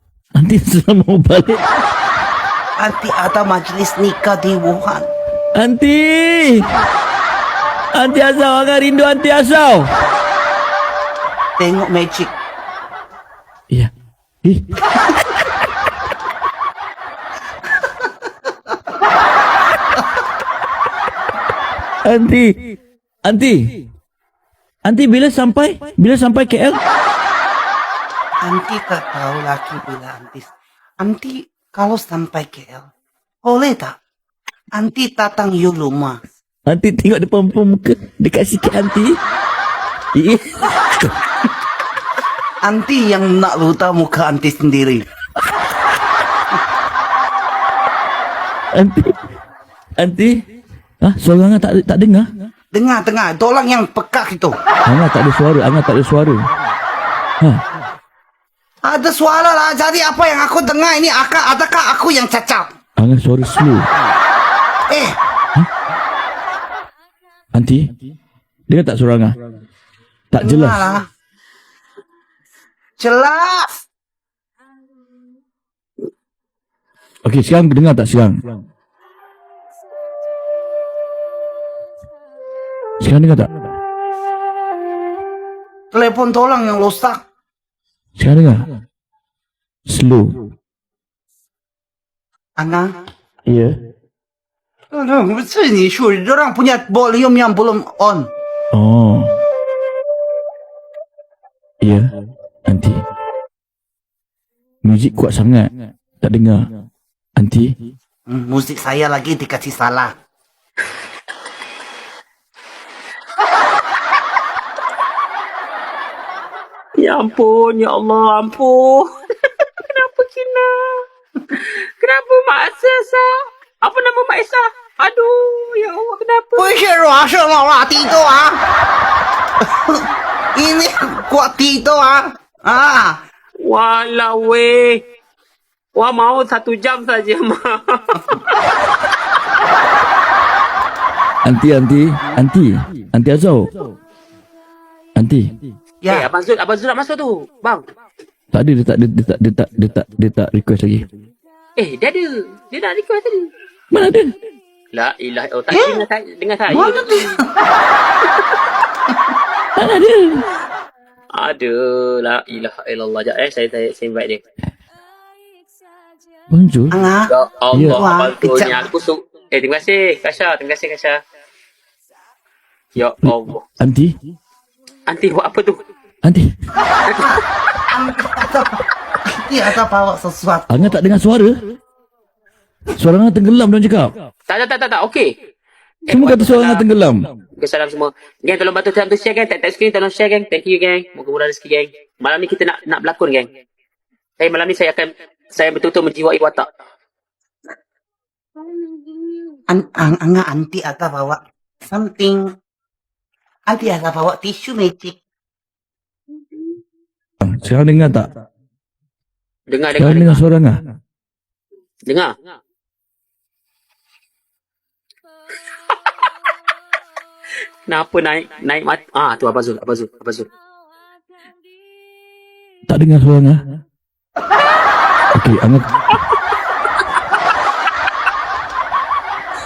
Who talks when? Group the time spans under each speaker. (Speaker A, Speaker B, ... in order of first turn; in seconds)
Speaker A: 0.4-1.6, 5.5-6.7, 7.9-9.9, 14.4-14.8, 22.0-22.5, 23.2-23.7, 24.9-26.8, 36.7-39.1, 40.1-41.1, 48.7-49.1, 50.0-50.3, 51.0-52.3, 54.9-56.4, 63.0-63.9, 67.5-67.9, 68.7-69.3, 70.3-70.8, 77.2-78.4, 83.0-83.5, 88.2-88.6, 89.9-90.3, 93.5-93.7, 98.7-99.3, 101.8-102.1, 102.7-103.0, 104.8-105.7, 106.2-106.6, 107.4-107.7, 141.4-143.8, 145.2-145.5, 148.5-151.1, 153.9-154.3, 159.8-160.5, 166.5-166.9, 167.7-168.1, 173.2-174.1, 176.2-176.5, 180.7-181.6, 182.9-184.1, 186.1-187.2, 207.4-208.3, 210.0-210.8, 222.9-223.6, 225.3-225.9
Speaker B: 2.8-5.1, 11.6-12.3, 28.4-30.5, 31.0-32.9, 33.4-34.0, 34.7-36.2, 42.6-45.0, 52.7-54.5, 58.8-62.7, 64.9-65.2, 70.4-71.1, 73.0-73.8, 85.9-87.2, 92.6-92.9, 94.9-98.3, 108.3-110.1, 126.6-128.6, 129.7-133.2, 146.0-146.3, 155.7-156.1, 156.7-157.6, 166.9-167.3, 167.9-168.9, 177.2-180.9, 199.7-202.5, 203.7-205.2
Speaker C: 117.0-119.1, 119.8-121.0, 121.6-126.7, 133.6-135.0, 135.9-138.7, 146.1-147.8, 151.8-153.5, 154.9-157.4, 161.3-164.4, 167.3-171.2, 172.9-173.6, 175.1-175.8, 177.0-177.4, 184.5-185.3, 186.1-186.9, 187.6-193.5, 194.4-196.7, 209.7-210.4, 212.1-212.3, 217.9-220.5